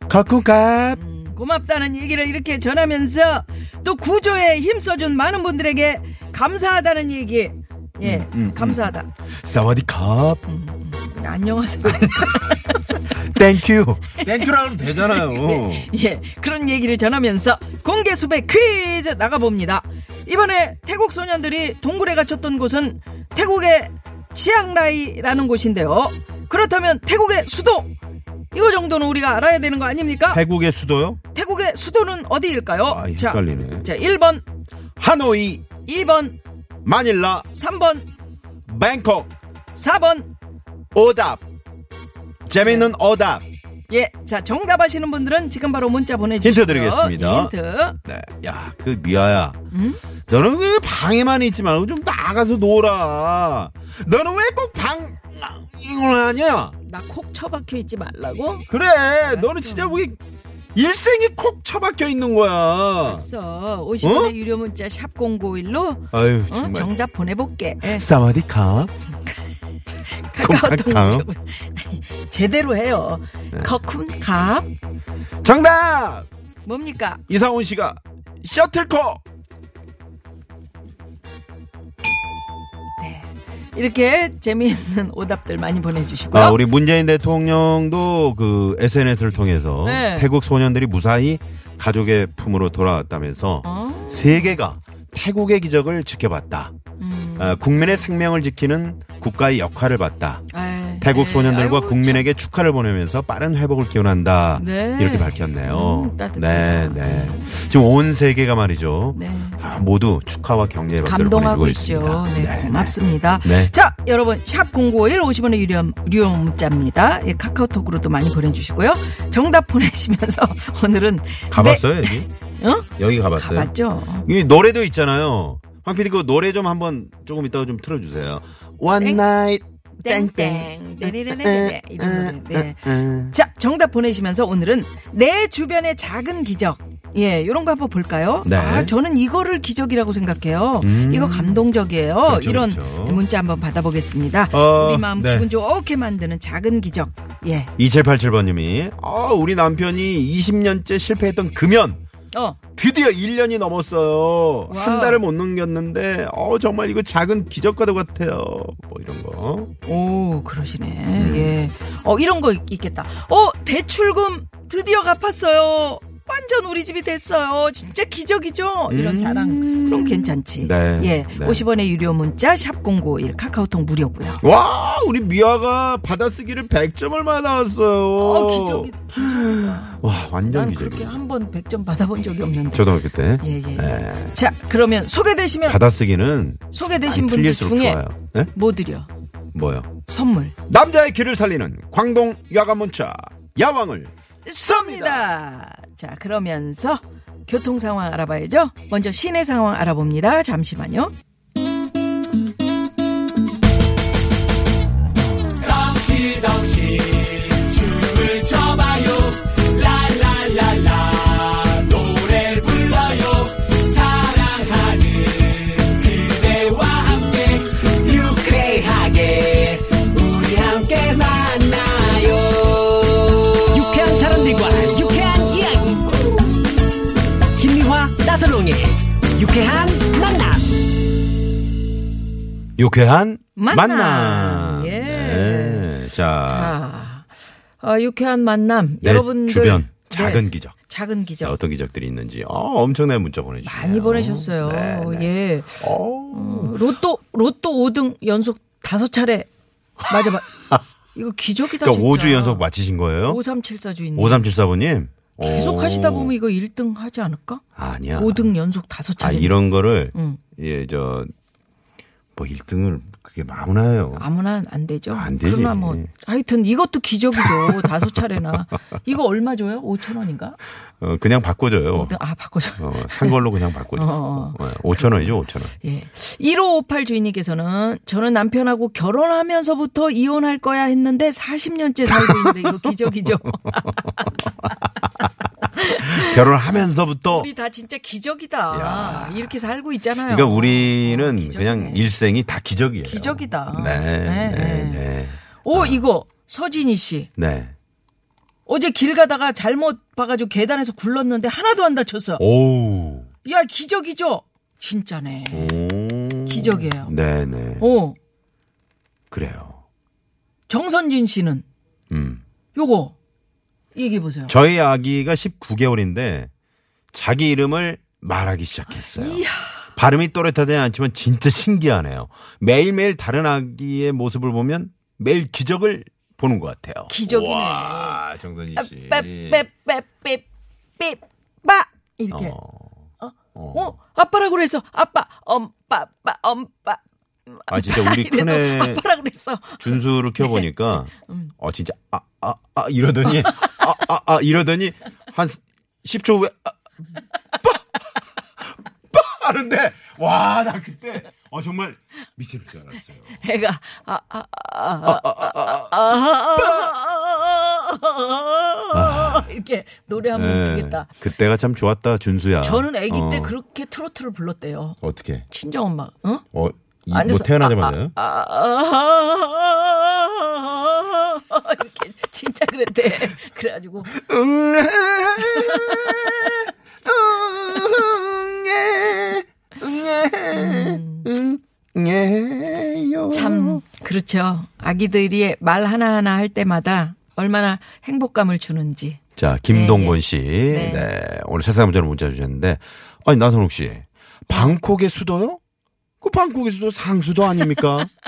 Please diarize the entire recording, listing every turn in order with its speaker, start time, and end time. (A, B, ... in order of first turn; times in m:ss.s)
0:00.1-0:01.0 A
0:00.9-0:09.1 B
0:08.0-0:10.4 A
0:10.5-0:13.2 B
0:11.9-0:12.5 A
0:13.1-0:15.9 A
0:14.2-0:27.9 B
0:28.5-0:30.4 B
0:30.3-0:31.2 A
0:31.3-0:34.4 B
0:32.9-0:33.9 A
0:35.0-0:35.6 A
0:35.8-0:36.4 B
0:36.8-0:37.5 A
0:37.5-0:38.0 B
0:38.6-0:39.3 A
0:39.7-0:40.3 B
0:40.9-0:41.4 A
0:42.5-0:43.4 A
0:42.6-0:42.9 B
0:43.9-0:48.0 B
0:46.4-0:47.5 A
0:48.0-0:49.6 A
0:49.7-0:50.0 B
0:50.3-0:56.7 A
0:56.9-0:58.7 B
0:58.7-1:00.2 A
0:59.3-1:00.0 B
1:00.7-1:03.2 A
1:03.0-1:08.1 B
1:04.0-1:04.3 A
1:06.1-1:06.9 A
1:07.8-1:08.9 A
1:10.1-1:14.7 B
1:10.4-1:11.3 A
1:15.4-1:16.3 A
1:16.6-1:17.2 B
1:17.3-1:19.2 A
1:23.0-1:26.6 B
1:26.3-1:36.7 A
1:29.8-1:30.3 B
1:33.6-1:34.6 B
1:37.0-1:37.9 B
1:37.4-1:40.4 A
1:40.5-1:42.2 B
1:41.0-1:53.7 A
1:44.5-1:47.5 B
1:49.1-1:49.6 B
1:51.0-2:04.3 B
2:01.5-2:02.3 A
2:03.0-2:13.4 A
2:10.0-2:27.7 B
2:18.4-2:18.9 A
2:20.8-2:21.6 A
2:22.2-2:23.2 A
2:24.5-2:25.5 A
2:27.8-2:32.0 A
2:32.3-2:32.6 B
2:32.7-2:39.7 A
2:34.7-2:35.2 B
2:39.8-2:54.4 B
2:41.1-2:41.6 A
2:48.9-2:51.6 A
2:54.4-3:01.2 A
2:58.2-3:05.8 B
3:02.7-3:04.4 A
3:05.7-3:08.5 A
3:06.7-3:08.0 B
3:08.5-3:09.1 B
3:09.5-3:09.9 A
3:10.0-3:10.5 B
3:10.7-3:15.3 A
3:14.4-3:21.1 B
3:25.6-3:46.7 C
3:47.5-3:50.8 C
3:52.8-3:56.8 A
3:53.6-3:55.9 B
3:56.4-3:57.3 B
3:57.8-4:01.6 B
3:59.0-4:00.7 A
4:01.4-4:06.8 A
4:03.6-4:09.5 B
4:10.0-4:12.6 B
4:11.8-4:13.4 A
4:13.2-4:14.4 B
4:14.2-4:16.3 A
4:15.4-4:17.6 B
4:17.8-4:18.5 A
4:18.2-4:20.4 B
4:19.2-4:21.3 A
4:22.4-4:24.3 A
4:24.2-4:30.6 B
4:25.1-4:26.1 A
4:27.4-4:28.3 A
4:31.0-4:32.1 A
4:31.9-4:33.4 B
4:32.8-4:35.7 A
4:33.9-4:44.3 B
4:42.1-4:44.7 A
4:45.7-4:46.6 B
4:46.0-4:47.5 A
4:47.3-4:52.1 B
4:48.7-4:49.6 A
4:50.3-4:56.0 A
4:53.0-4:55.0 B
4:55.6-4:57.3 B
4:57.4-4:57.7 A
4:58.6-5:02.4 B
5:02.4-5:03.3 A
5:03.4-5:05.7 B
5:05.5-5:07.9 A
5:06.4-5:07.1 B
5:07.8-5:08.2 B
5:09.3-5:09.8 A
5:10.7-5:11.6 B
5:12.1-5:12.4 A
5:12.7-5:13.1 B
5:13.9-5:14.5 B
5:14.5-5:16.5 A
5:17.1-5:19.4 A
5:19.1-5:19.9 B
5:20.0-5:29.6 A
5:27.1-5:28.2 B
5:28.8-5:30.4 B
5:31.0-5:32.6 B
5:32.3-5:32.9 A
5:33.2-5:37.0 B
5:33.5-5:33.9 A
5:37.5-5:41.5 B
5:37.7-5:39.0 A
5:39.8-5:46.7 A
5:43.3-5:43.9 B
5:49.1-5:53.4 A
5:53.4-6:01.1 B
5:55.0-5:56.0 A
5:56.6-5:56.9 A
5:58.9-5:59.5 A
6:00.3-6:03.5 A
6:02.6-6:05.0 B
6:05.0-6:05.4 A
6:05.5-6:06.4 B
6:06.5-6:08.1 A
6:07.1-6:14.1 B
6:14.0-6:23.8 A
6:15.4-6:16.5 B
6:20.5-6:21.3 B
6:23.3-6:31.0 B
6:29.4-6:35.6 A
6:34.5-6:34.8 B
6:36.2-6:38.1 A